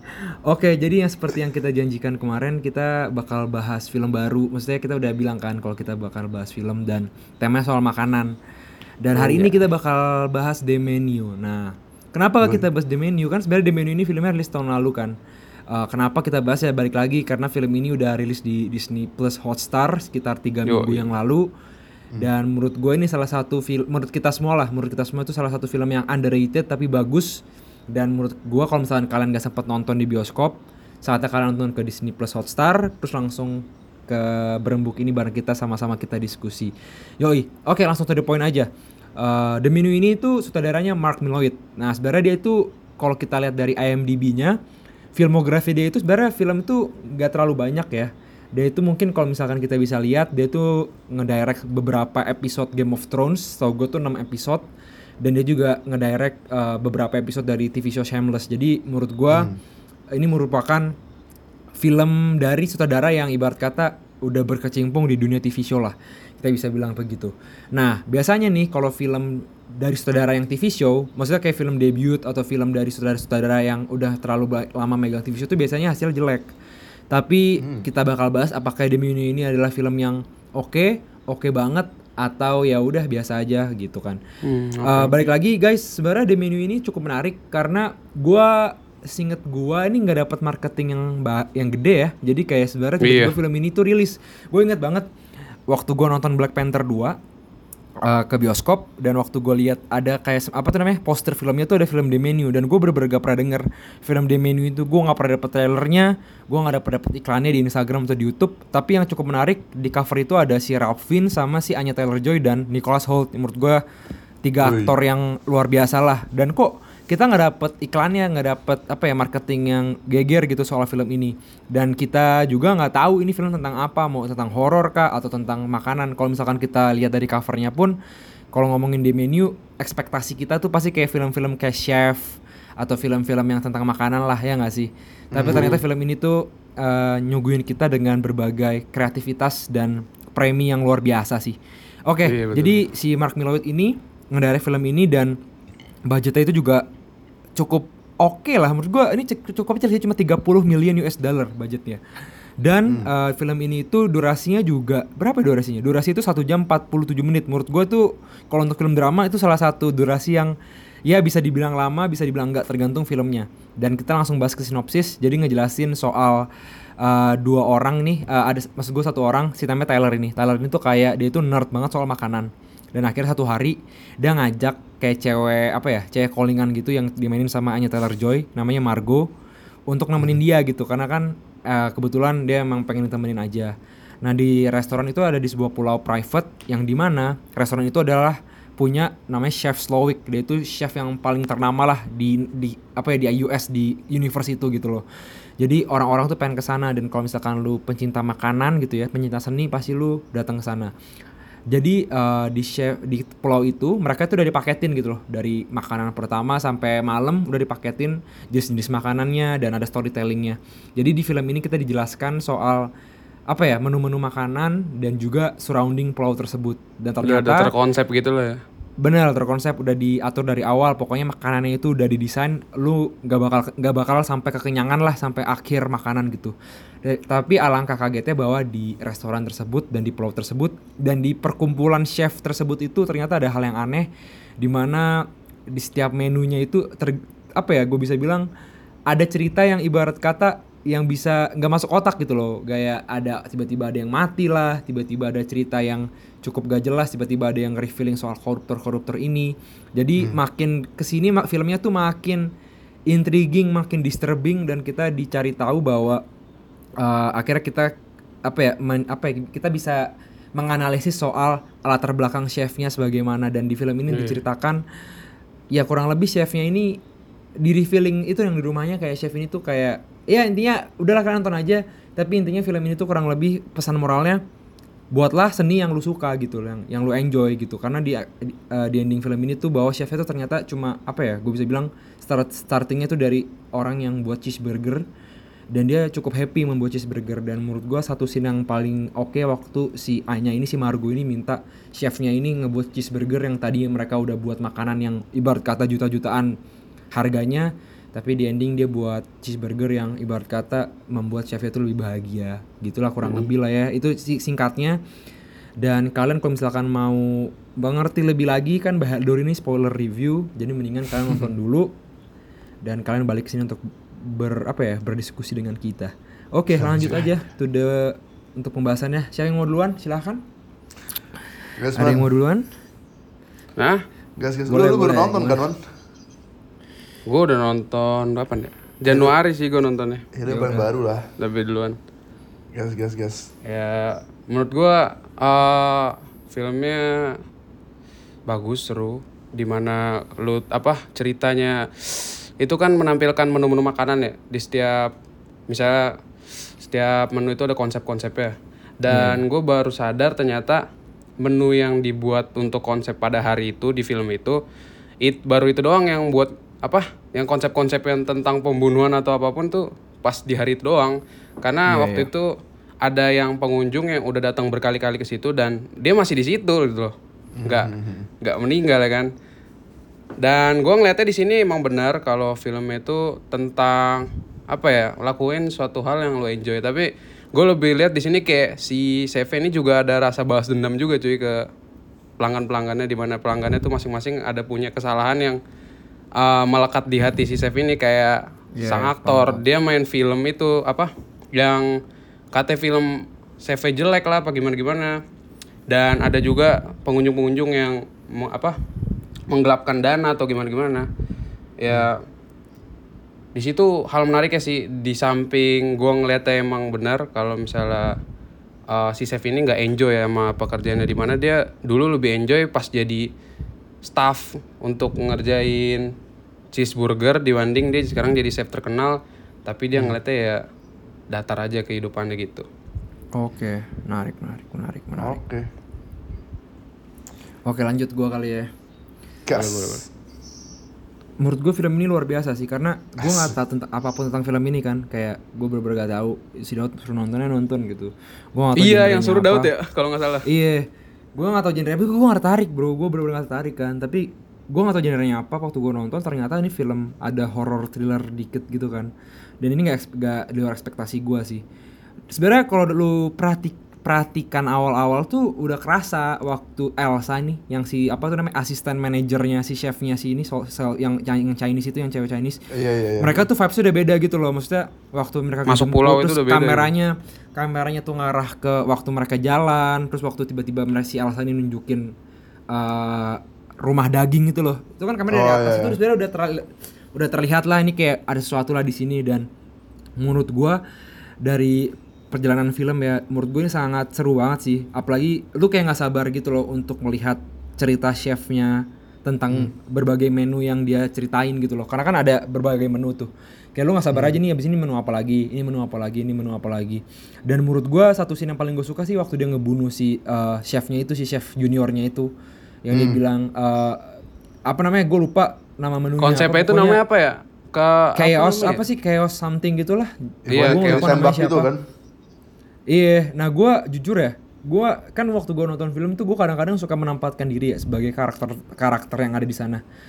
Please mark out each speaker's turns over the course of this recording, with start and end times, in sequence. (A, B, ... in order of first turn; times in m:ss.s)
0:00.4-0:08.4 A
0:09.0-0:15.2 A
0:09.2-0:09.5 B
0:15.7-0:21.5 A
0:20.7-0:21.1 C
0:22.2-0:44.6 A
0:45.1-0:54.7 A
0:55.2-0:59.5 A
0:59.3-0:59.6 B
1:00.2-1:00.9 A
1:01.8-1:16.5 A
1:17.1-1:24.2 A
1:17.6-1:17.9 B
1:24.4-1:25.2 C
1:24.8-1:35.1 A
1:33.0-1:33.3 C
1:35.7-1:37.2 A
1:38.0-1:53.8 A
1:54.4-2:08.0 A
1:54.6-1:54.9 B
2:08.5-2:25.4 A
2:15.3-2:15.8 B
2:15.5-2:15.8 C
2:22.2-2:22.8 C
2:26.1-2:26.8 A
2:27.6-2:32.0 A
2:32.6-2:40.5 A
2:41.0-2:46.5 A
2:47.0-2:59.3 A
2:59.9-3:15.0 A
3:15.6-3:20.9 A
3:21.7-3:32.9 A
3:33.5-3:37.7 A
3:37.2-3:38.6 C
3:39.0-3:54.1 A
3:54.6-3:58.5 A
3:59.1-4:12.5 A
4:13.1-4:16.2 A
4:17.0-4:17.9 A
4:18.4-4:24.8 A
4:24.1-4:24.4 C
4:25.7-4:27.0 A
4:27.6-4:34.4 A
4:35.1-4:45.0 A
4:45.7-4:56.6 A
4:57.1-5:05.0 A
5:03.2-5:03.5 C
5:05.8-5:11.9 A
5:12.8-5:20.4 A
5:16.8-5:17.3 B
5:21.8-5:22.3 B
5:21.9-5:22.6 A
5:24.4-5:25.8 B
5:24.7-5:25.6 A
5:27.2-5:30.2 C
5:29.1-5:29.3 B
5:30.3-5:31.2 B
5:30.5-5:30.9 A
5:31.4-5:32.0 C
5:32.7-5:33.5 B
5:33.6-5:37.4 C
5:38.5-5:45.1 C
5:45.7-5:46.1 C
5:46.8-5:50.8 C
5:49.1-5:49.4 A
5:51.4-5:54.6 C
5:55.2-6:02.5 C
6:01.9-6:02.3 A
6:03.0-6:07.1 C
6:07.6-6:08.3 B
6:07.6-6:09.3 C
6:10.4-6:21.6 C
6:22.4-6:25.6 C
6:26.4-6:31.9 C
6:28.8-6:29.6 A
6:32.5-6:33.1 C
6:33.6-6:35.2 C
6:35.9-6:38.8 C
6:39.5-6:41.1 C
6:41.8-6:42.2 C
6:43.6-6:48.1 C
6:48.9-6:53.2 C
6:54.1-6:56.1 C
6:56.7-7:00.6 C
7:01.3-7:02.6 C
7:03.3-7:05.4 A
7:05.2-7:05.7 B
7:07.6-7:08.7 A
7:09.4-7:10.0 B
7:09.6-7:10.0 C
7:11.4-7:19.7 A
7:13.2-7:13.5 B
7:18.8-7:20.4 C
7:20.4-7:31.6 A
7:32.3-7:42.6 A
7:42.7-7:43.5 B
7:43.2-7:52.1 A
7:45.7-7:46.9 C
7:52.7-7:59.5 A
7:55.3-7:56.0 B
8:00.2-8:00.8 A
8:01.4-8:22.3 A
8:14.1-8:14.4 B
8:22.8-8:24.0 A
8:22.9-8:23.2 B
8:24.7-8:27.0 A
8:26.2-8:28.8 C
8:28.2-8:31.7 A
8:30.5-8:31.8 B
8:30.5-8:31.2 C
8:32.9-8:39.8 A